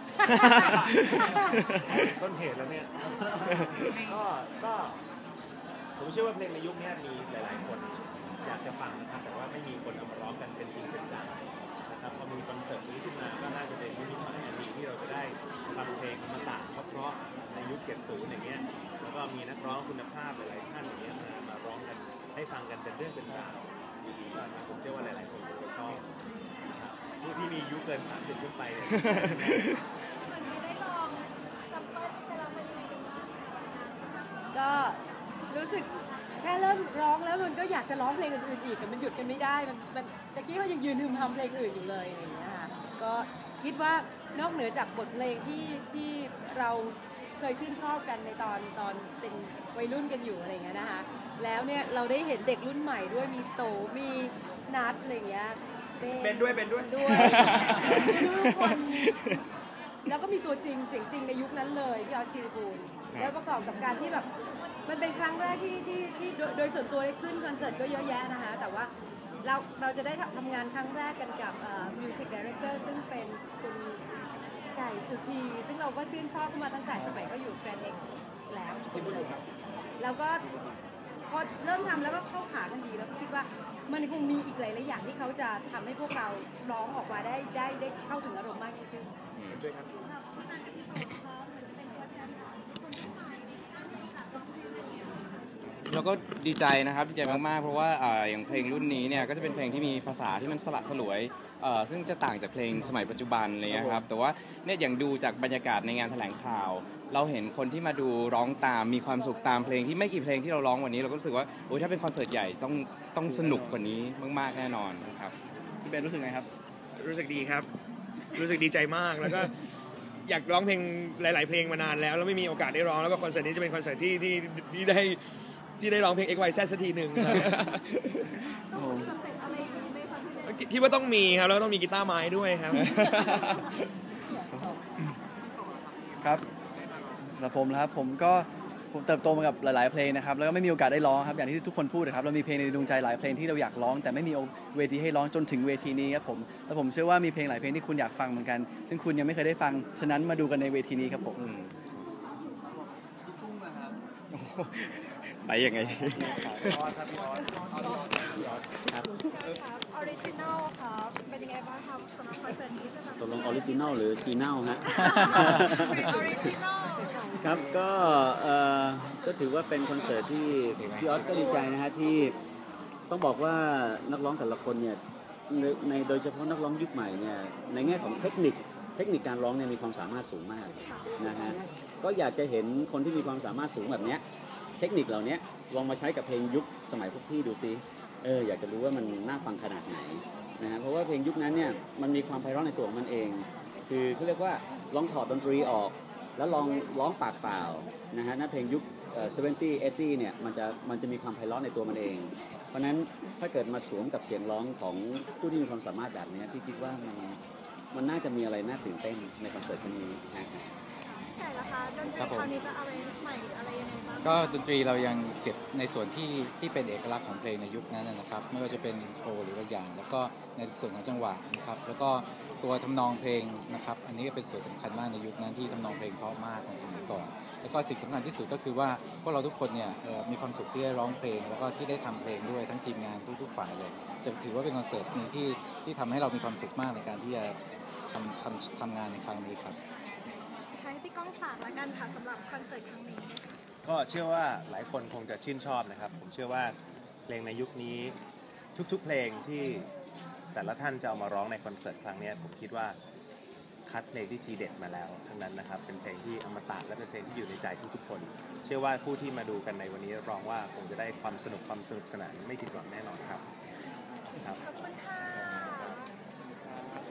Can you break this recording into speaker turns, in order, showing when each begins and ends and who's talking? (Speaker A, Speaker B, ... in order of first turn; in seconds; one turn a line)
Speaker A: 0.2-0.7
Speaker B: 0.3-2.1
Speaker A: 1.2-1.5
Speaker C: 1.9-5.0
Speaker C: 6.0-26.1
Speaker C: 26.6-29.6
Speaker D: 27.1-27.8
Speaker D: 30.2-34.3
Speaker A: 34.5-35.0
Speaker A: 35.5-35.9
Speaker A: 36.4-59.1
Speaker E: 56.2-56.9
Speaker B: 57.0-59.4
Speaker E: 57.6-57.9
Speaker A: 60.1-64.3
Speaker A: 64.8-68.9
Speaker A: 69.4-74.0
Speaker A: 74.7-79.4
Speaker A: 80.0-80.4
Speaker A: 81.3-89.1
Speaker B: 89.3-89.6
Speaker E: 89.5-89.9
Speaker D: 90.0-95.2
Speaker B: 95.9-115.3
Speaker F: 103.7-104.0
Speaker F: 113.2-113.8
Speaker F: 115.8-116.5
Speaker E: 117.0-117.7
Speaker E: 118.3-119.5
Speaker E: 120.2-125.2
Speaker E: 125.8-127.8
Speaker D: 128.7-131.2
Speaker F: 128.8-129.1
Speaker E: 130.4-133.6
Speaker D: 133.2-133.5
Speaker A: 134.3-134.8
Speaker F: 137.4-151.4
Speaker B: 151.3-151.7
Speaker B: 154.3-156.8
Speaker D: 156.2-156.6
Speaker C: 156.8-157.5
Speaker D: 157.2-158.2
Speaker D: 159.2-167.8
Speaker G: 163.2-166.5
Speaker G: 167.4-172.3
Speaker H: 170.7-171.4
Speaker D: 171.3-171.7
Speaker G: 173.1-184.2
Speaker G: 184.8-207.4
Speaker G: 207.9-210.7
Speaker D: 211.3-214.5
Speaker H: 212.2-212.5
Speaker H: 214.2-237.6
Speaker H: 238.1-239.8
Speaker D: 240.7-243.4
Speaker C: 243.8-246.8
Speaker C: 247.3-248.2
Speaker C: 248.7-249.9
Speaker C: 250.5-253.0
Speaker C: 253.8-263.4
Speaker D: 264.5-266.1